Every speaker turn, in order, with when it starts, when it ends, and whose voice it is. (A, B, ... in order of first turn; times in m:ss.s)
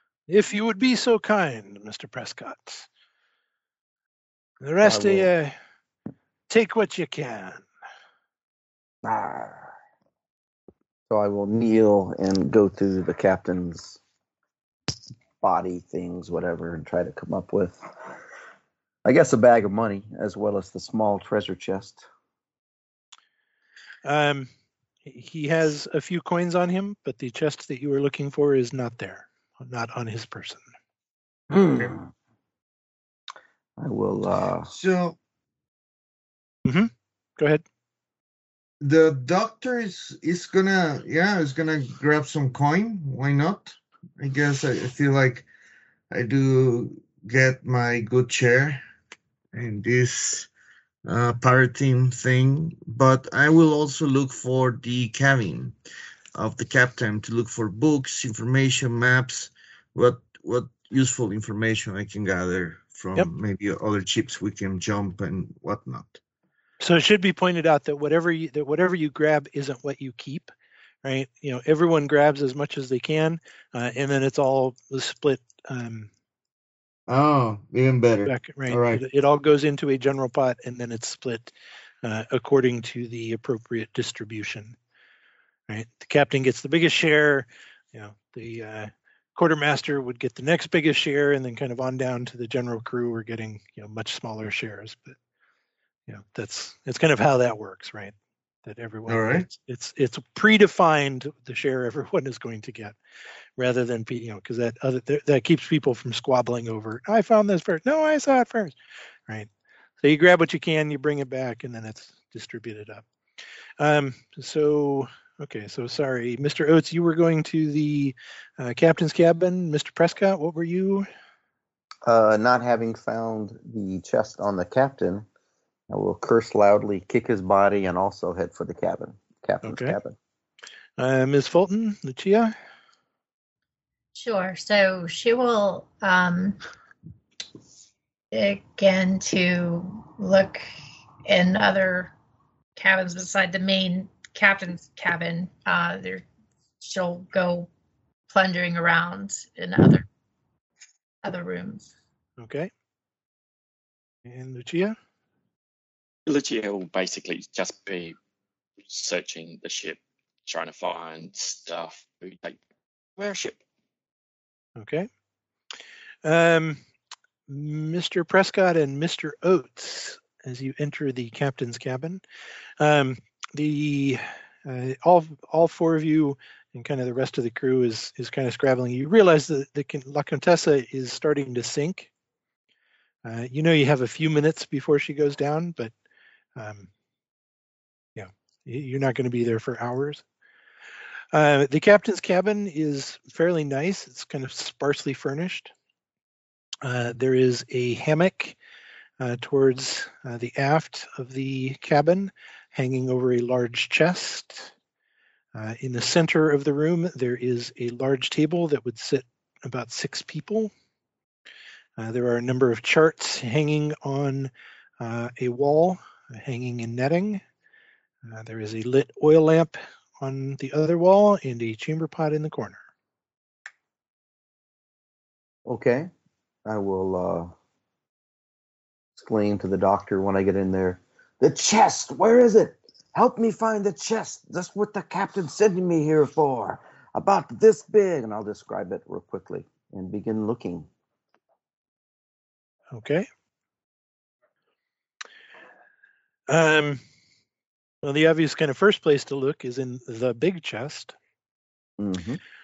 0:00.3-0:02.9 A
0:04.6-0:05.5 A
0:04.8-0:05.3 B
0:06.5-0:07.7 A
0:09.0-0:09.8 B
0:11.1-0:14.0 B
0:15.4-0:17.8 B
0:19.0-0:22.1 B
0:24.0-0:24.5 A
0:25.0-0:30.6 A
0:31.5-0:32.1 B
0:33.8-0:34.7 B
0:34.7-0:35.2 C
0:36.7-0:37.6 A
0:38.8-0:45.5 C
0:46.1-0:48.8 C
0:49.5-0:50.5 C
0:51.1-0:55.8 C
0:56.4-1:06.2 C
1:06.8-1:10.5 A
1:11.0-1:16.1 A
1:17.1-1:19.0 C
1:18.2-1:24.8 A
1:25.7-1:35.2 A
1:36.1-1:43.0 A
1:39.1-1:39.5 C
1:43.6-1:48.8 A
1:50.0-1:53.1 A
1:53.8-2:01.1 A
2:02.0-2:05.3 B
2:05.9-2:10.2 B
2:09.6-2:10.0 A
2:11.0-2:12.5 A
2:14.1-2:16.6 D
2:18.3-2:20.7 D
2:21.3-2:22.1 D
2:22.8-2:26.3 D
2:26.8-2:27.7 D
2:28.3-2:30.0 D
2:31.2-2:31.9 D
2:32.4-2:32.7 A
2:34.2-2:35.0 A
2:36.3-2:38.2 E
2:38.9-2:42.6 E
2:43.2-2:43.6 E
2:44.8-2:45.1 A
2:46.2-2:46.8 A
2:47.5-2:52.2 A
2:52.8-3:02.1 A
3:03.2-3:05.9 A
3:06.6-3:06.9 A
3:08.2-3:10.2 A
3:11.3-3:15.7 A
3:16.8-3:18.6 A
3:19.2-3:24.7 A
3:25.5-3:30.7 A
3:32.0-3:37.4 A
3:38.2-3:42.8 A
3:45.6-3:46.1 B
3:46.7-3:47.5 B
3:49.2-4:00.9 B
4:02.9-4:03.3 A
4:06.5-4:07.0 A
4:08.0-4:11.2 A
4:12.0-4:12.4 B